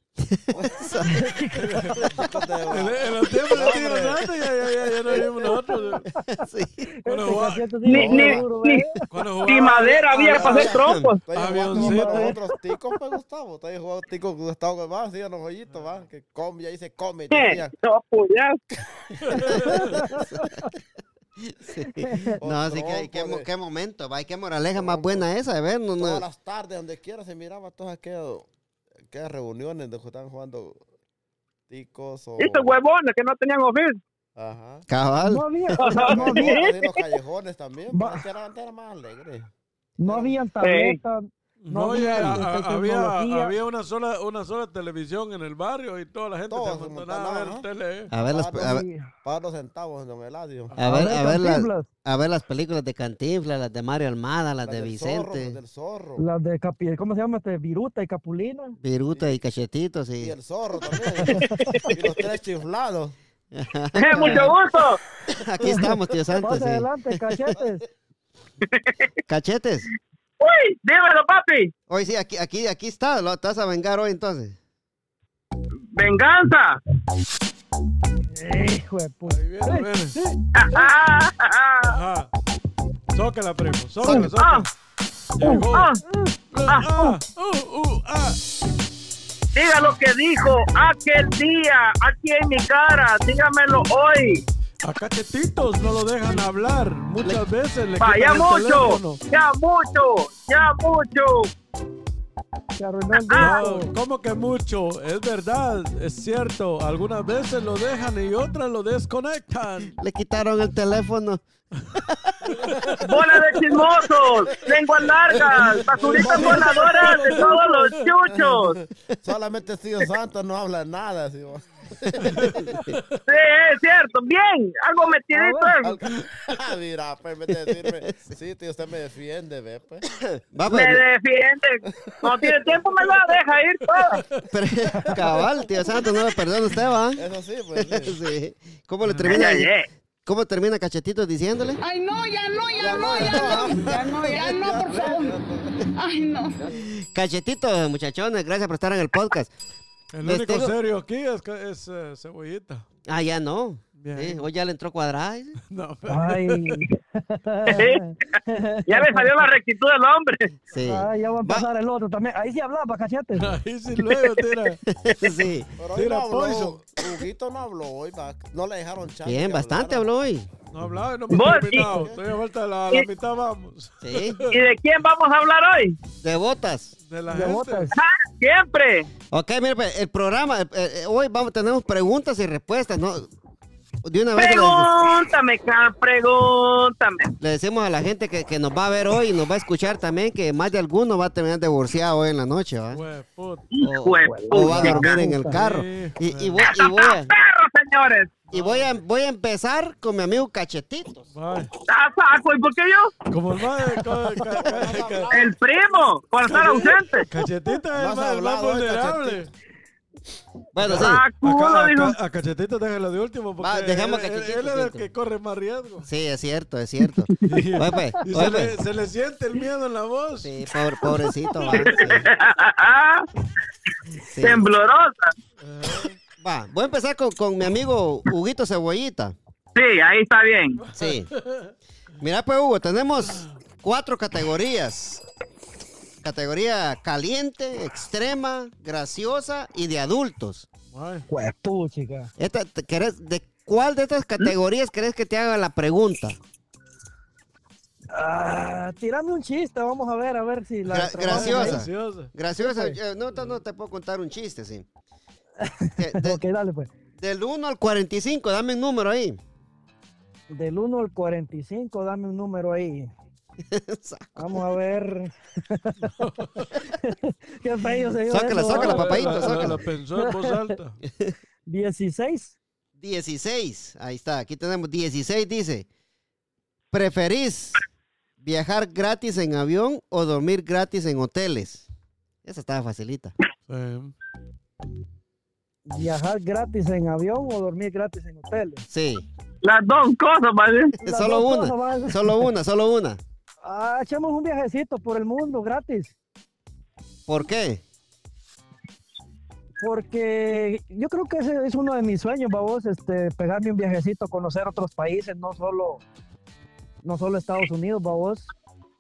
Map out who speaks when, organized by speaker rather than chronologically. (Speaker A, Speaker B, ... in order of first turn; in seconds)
Speaker A: 0.2-1.2, 6.3-6.9, 10.4-11.1, 20.1-20.5, 21.4-26.2, 34.9-35.4, 48.1-48.8, 50.8-55.6, 58.8-60.3, 63.5-64.5, 65.3-67.2, 69.3-69.9, 71.9-74.6, 110.0-111.4, 111.9-112.3, 122.0-122.9, 127.7-128.3, 130.1-131.0, 134.5-137.2, 137.7-139.7, 140.2-141.8, 146.8-149.5, 150.2-150.7, 153.1-155.6, 160.7-161.7, 164.9-165.7, 169.2-170.5, 174.0-174.4, 176.2-176.9, 179.3-183.3, 184.0-184.9, 187.4-193.0, 193.8-197.3, 198.5-201.3, 210.7-211.2, 213.6-215.1, 216.0-218.8, 220.4-222.3, 224.2-224.7, 226.4-229.3, 230.9-231.3, 232.2-235.2, 236.2-240.7, 242.4-246.4, 250.8-254.8, 256.0-256.4, 257.2-259.4, 263.7-264.6, 268.3-269.8, 273.0-275.9, 276.9-277.8, 278.4-281.9, 282.4-283.3, 288.9-289.2, 291.0-293.2, 297.3-297.8
Speaker B: 0.5-0.9, 2.1-4.3, 7.9-8.5, 10.1-17.7, 22.4-23.5, 24.7-25.2, 26.0-28.5, 29.1-30.8, 31.7-32.7, 34.4-34.9, 35.9-39.5, 40.0-40.3, 46.5-47.6, 48.3-50.8, 54.6-56.2, 59.1-59.4, 60.2-63.1, 115.9-117.3, 118.3-122.7, 125.8-130.0, 132.0-132.7, 137.2-138.2, 142.8-145.9, 165.8-170.1, 171.8-172.2, 204.6-205.6, 206.4-207.0, 207.9-209.4
Speaker C: 1.1-2.1, 7.0-9.0, 11.7-12.4, 19.6-20.7, 21.9-22.4, 35.2-36.5, 37.9-38.2, 40.0-43.5, 48.6-49.1, 50.8-51.9, 56.2-58.8, 61.2-61.9, 65.6-67.8, 78.3-80.4, 85.4-86.3, 102.8-103.9, 125.3-125.7, 156.1-159.3, 160.8-163.5, 177.3-177.9, 194.3-195.6, 241.3-242.3, 248.1-251.8, 252.6-253.0, 255.6-256.9, 260.5-263.1, 264.4-266.1, 266.9-270.5, 271.7-272.6, 285.9-288.8, 291.0-292.4, 293.6-296.1, 299.8-306.0, 307.0-308.5
Speaker D: 1.5-2.0, 2.7-6.0, 7.0-7.7, 9.1-10.7, 11.3-12.4, 15.7-16.0, 19.2-19.9, 41.6-48.1, 79.2-80.1, 81.8-82.3, 83.1-84.7, 85.3-85.9, 86.5-88.4, 94.8-99.2, 103.3-109.9, 112.4-113.1, 115.4-118.1, 122.3-123.2, 134.2-134.4, 139.0-139.4, 150.1-152.8, 153.9-154.5, 155.7-156.7, 163.3-164.8, 165.9-166.8, 170.7-174.6, 177.1-177.9, 192.9-193.6, 195.5-196.7, 198.5-199.0, 201.3-201.7, 203.3-205.4, 206.4-209.5, 210.8-216.1, 217.4-220.5, 225.6-226.2, 230.8-231.7, 240.9-241.2, 251.3-252.3, 266.0-266.6, 268.7-271.0, 283.7-284.1
Speaker E: 7.8-8.8, 9.4-11.2, 17.3-18.6, 32.4-34.0, 35.8-37.0, 40.6-41.0, 61.6-61.9, 64.0-65.0, 68.7-69.0, 70.4-71.7, 75.9-76.8, 80.5-82.0, 84.0-84.7, 85.7-86.0, 89.5-94.4, 98.0-101.5, 103.2-103.6, 113.0-118.8, 123.3-126.0, 130.7-134.2, 139.3-139.9, 157.7-158.1, 158.9-160.5, 171.3-171.9, 174.5-176.0, 177.9-179.1, 184.3-187.3, 193.7-195.2, 196.7-198.3, 201.9-203.2, 205.3-207.3, 210.9-212.1, 221.7-223.3, 224.4-225.3, 229.7-230.8, 289.6-290.9
Speaker F: 141.8-145.4, 145.9-146.7